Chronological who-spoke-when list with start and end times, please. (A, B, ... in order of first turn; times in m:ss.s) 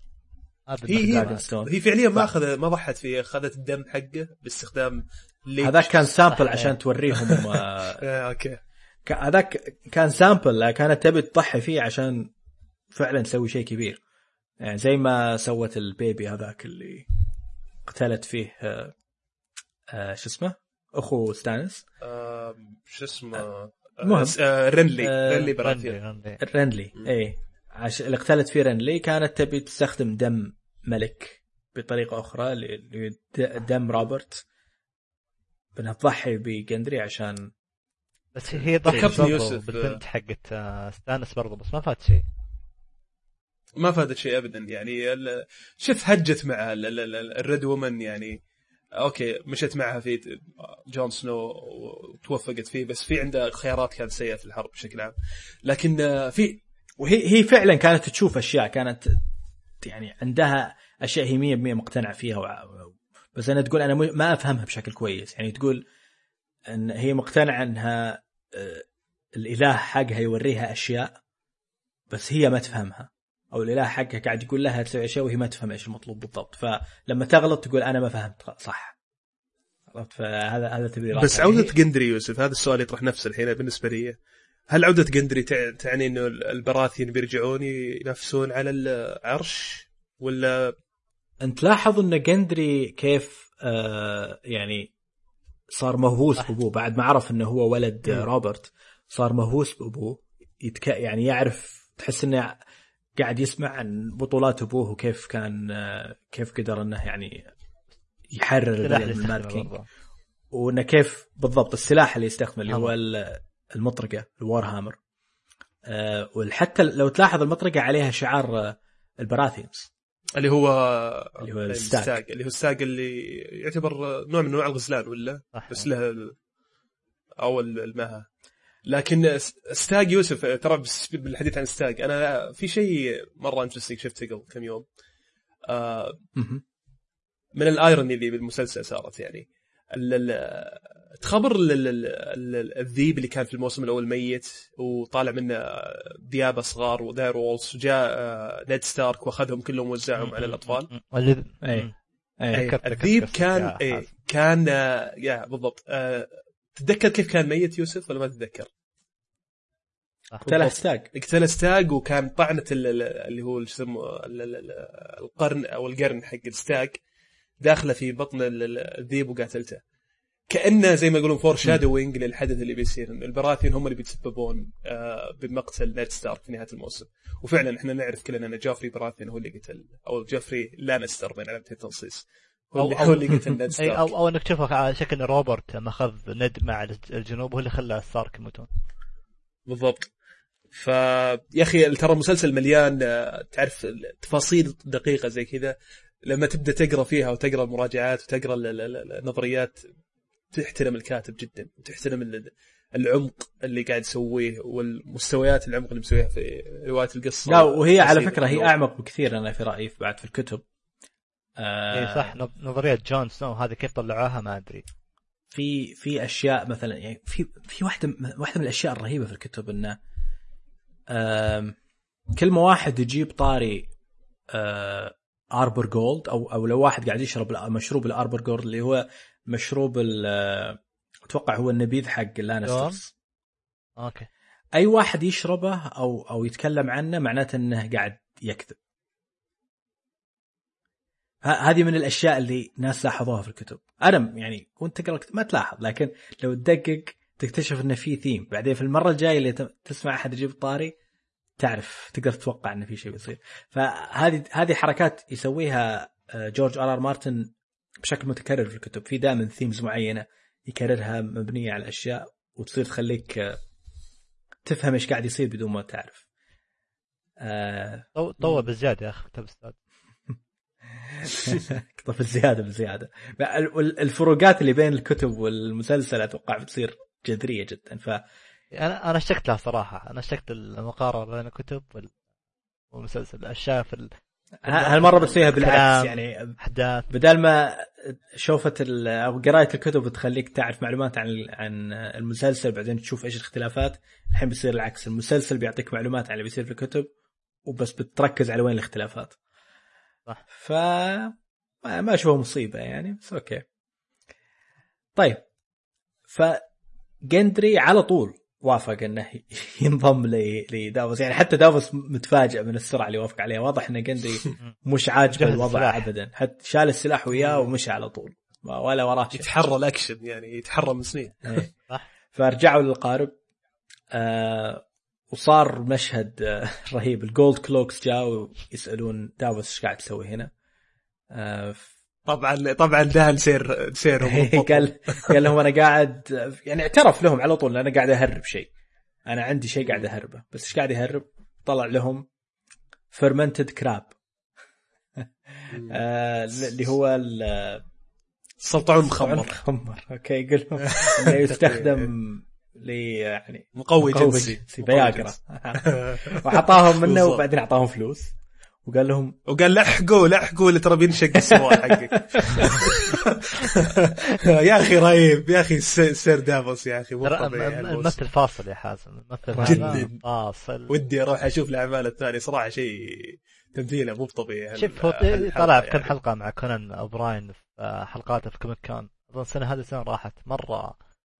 0:00.7-0:01.4 A
0:00.9-0:06.1 B
0:00.9-0:02.3 C
0:05.6-0:08.0 C
0:06.3-0:06.7 A
0:07.1-0:08.6 B
0:09.0-0:12.3 C
0:12.9-0:14.0 C
0:14.6-0:17.0 C
0:17.8-0:18.9 C
0:19.9-0:21.8 C
0:22.0-0:26.0 B
0:24.0-0:24.4 C
0:25.0-0:25.6 C
0:25.6-0:26.4 A
0:26.4-0:34.4 C
0:35.8-0:37.5 C
0:38.3-0:42.2 A
0:38.8-0:40.0 B
0:38.8-0:39.2 C
0:43.8-0:48.4 B
0:49.0-0:55.1 B
0:55.6-0:56.6 B
0:57.0-0:59.2 C
0:59.8-1:05.8 C
1:06.7-1:11.2 C
1:12.1-1:18.9 C
1:19.9-1:21.7 C
1:21.1-1:24.2 B
1:24.7-1:30.7 B
1:31.4-1:34.9 C
1:35.7-1:42.5 C
1:43.2-1:47.5 C
1:48.3-1:49.7 C
1:48.8-1:49.8 A
1:50.5-1:55.0 C
1:52.6-1:52.9 A
1:55.9-1:59.9 C
2:00.4-2:06.4 B
2:01.4-2:02.2 C
2:05.5-2:05.8 A
2:07.4-2:08.2 B
2:08.8-2:14.8 B
2:15.7-2:16.2 B
2:16.4-2:16.6 C
2:17.6-2:30.9 B
2:30.2-2:31.9 A
2:31.6-2:32.7 C
2:32.5-2:34.0 A
2:32.5-2:38.7 B
2:40.4-2:41.1 C
2:40.4-2:47.0 B
2:47.6-2:49.8 B
2:50.5-3:04.1 B
3:02.8-3:03.2 A
3:03.8-3:08.7 A
3:09.7-3:10.1 B
3:10.7-3:15.7 B
3:16.2-3:19.8 B
3:20.5-3:28.7 B
3:27.4-3:30.6 C
3:31.6-3:32.4 C
3:31.9-3:34.8 A
3:35.5-3:40.0 C
3:41.1-3:41.8 C
3:42.3-3:43.9 C
3:44.5-3:53.1 C
3:52.6-3:53.0 A
3:54.0-3:54.3 A
3:54.8-3:58.8 C
4:01.4-4:10.9 C
4:11.6-4:17.5 C
4:18.0-4:23.6 C
4:24.6-4:26.2 C
4:27.4-4:28.1 C
4:28.2-4:29.8 A
4:31.0-4:38.2 C
4:38.7-4:42.2 A
4:42.9-4:44.1 A
4:44.6-4:46.5 C
4:44.6-4:47.1 A
4:47.1-4:57.1 C
4:57.6-4:59.3 C
5:00.5-5:03.6 C
5:05.2-5:05.4 C
5:06.3-5:06.6 C
5:07.3-5:19.5 C
5:15.3-5:16.1 A
5:17.4-5:17.7 B
5:19.3-5:21.7 B
5:22.3-5:23.3 C
5:24.1-5:30.5 C
5:31.3-5:31.9 C
5:32.2-5:35.4 B
5:34.2-5:38.7 C
5:39.3-5:42.2 C
5:43.1-5:44.1 C
5:45.2-5:47.8 C
5:45.7-5:46.0 B
5:48.6-5:49.5 B
5:49.0-5:58.3 C
5:50.9-5:52.1 B
5:53.8-5:57.4 B
5:58.8-5:59.3 C
5:59.5-6:08.2 B
6:01.5-6:02.9 C
6:07.2-6:10.9 A
6:09.5-6:10.1 C
6:09.6-6:10.2 B
6:10.9-6:16.1 B
6:14.8-6:20.9 A